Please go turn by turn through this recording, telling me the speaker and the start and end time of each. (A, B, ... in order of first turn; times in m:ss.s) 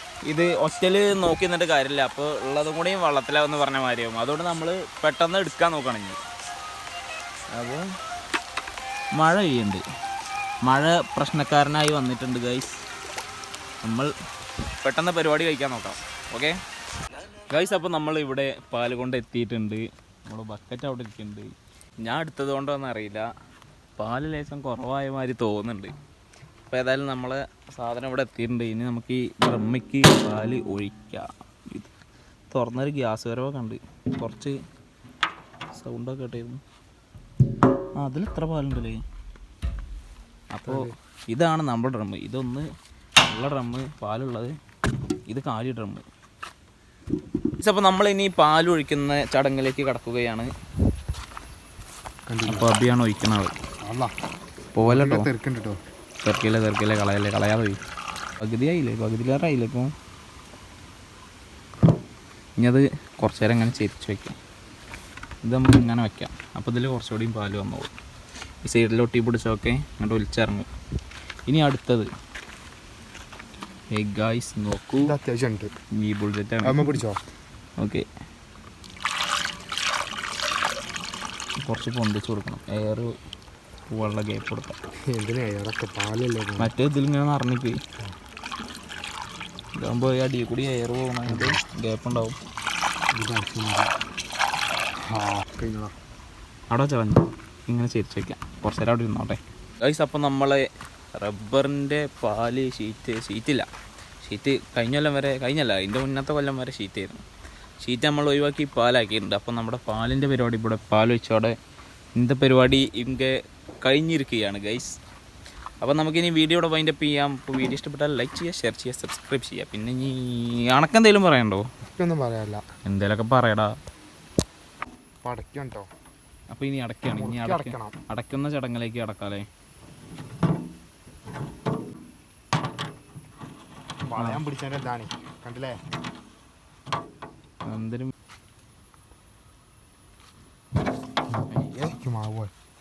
0:00.2-0:06.2 A
0:07.5-0:07.9 A
0:09.1-0:09.8 A
0:10.6-0:12.8 A
0:13.8-0:14.1 A
0:14.8-0:16.6 A
0:17.5-0:23.3 A
0:24.0-0:25.9 A
0:26.7-0:31.9 A
0:32.5-0:34.5 A
0:35.7-0:36.6 A
0:38.0-0:39.0 A
0:40.5-0:42.7 A
0:40.7-0:40.9 B
0:43.2-0:44.5 A
0:45.3-0:46.0 A
0:47.6-0:50.5 A
0:52.3-0:52.7 B
0:52.5-0:53.5 A
0:53.8-0:54.1 B
0:54.8-0:55.3 A
0:54.8-0:55.8 B
0:56.2-0:57.8 A
0:58.4-0:59.9 A
1:02.6-1:04.3 A
1:05.4-1:07.9 A
1:08.6-1:10.7 A
1:11.5-1:12.1 A
1:13.9-1:15.1 A
1:15.0-1:15.7 B
1:16.0-1:17.0 A
1:16.6-1:17.2 B
1:17.8-1:18.0 A
1:21.6-1:23.1 A
1:23.9-1:24.7 A
1:25.1-1:26.7 B
1:26.6-1:27.8 A
1:29.8-1:32.4 A
1:31.3-1:31.6 B
1:33.1-1:33.9 B
1:35.1-1:35.9 B
1:36.7-1:40.6 A
1:41.2-1:43.7 A
1:44.2-1:47.2 A
1:47.8-1:51.5 A
1:52.2-1:54.9 A
1:55.8-2:01.7 A
2:01.8-2:02.6 B
2:02.8-2:03.7 A
2:05.2-2:05.9 B
2:06.5-2:09.4 A
2:07.1-2:07.9 B
2:14.1-2:15.7 B
2:14.2-2:14.4 A
2:17.6-2:18.1 A
2:21.3-2:22.5 B